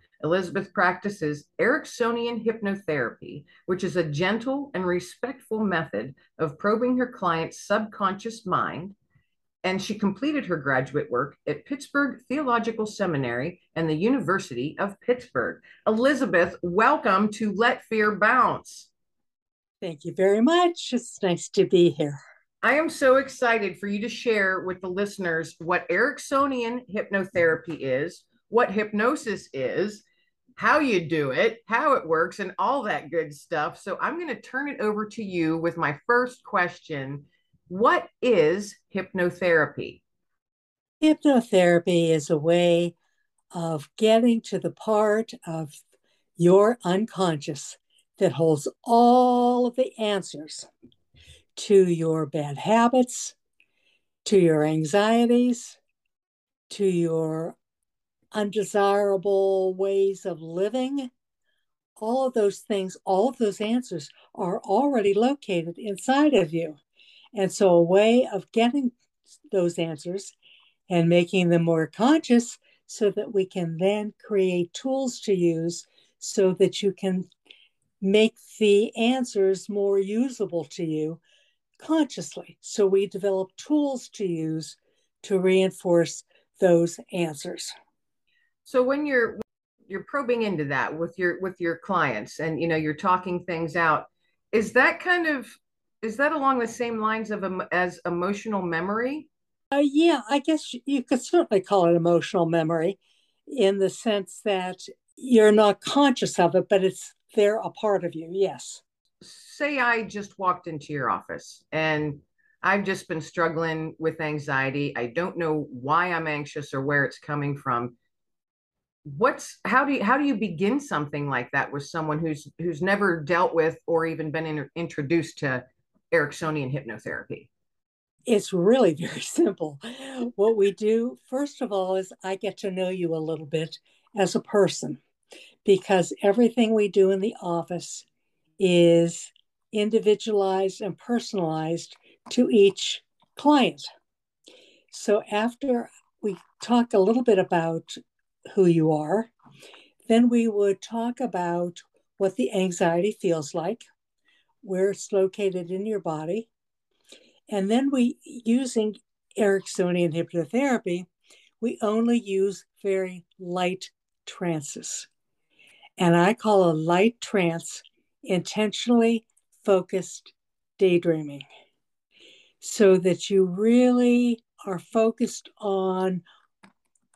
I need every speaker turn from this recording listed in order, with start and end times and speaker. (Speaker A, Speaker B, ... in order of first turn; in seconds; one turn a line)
Speaker A: 0.2-8.9
Speaker A: 9.6-18.9
Speaker B: 19.8-22.2
Speaker A: 22.6-30.0
Speaker A: 30.6-40.0
Speaker B: 41.0-42.9
Speaker B: 43.5-45.8
Speaker B: 46.4-50.7
Speaker B: 51.5-53.3
Speaker B: 54.2-55.8
Speaker B: 56.7-57.6
Speaker B: 58.3-61.1
Speaker B: 62.0-66.8
Speaker B: 67.3-68.9
Speaker B: 69.5-70.3
Speaker B: 70.9-77.3
Speaker B: 78.0-81.2
Speaker B: 81.8-87.7
Speaker A: 88.7-99.3
Speaker B: 99.7-108.8
Speaker A: 109.2-117.9
Speaker A: 119.0-127.5
Speaker B: 128.3-135.0
Speaker B: 135.6-138.1
Speaker B: 138.6-143.9
Speaker B: 144.9-147.9
Speaker B: 148.5-149.3
Speaker B: 150.1-153.8
Speaker B: 154.6-156.5
Speaker B: 157.5-161.1
Speaker B: 161.6-165.1
Speaker B: 166.0-171.4
Speaker B: 172.6-176.2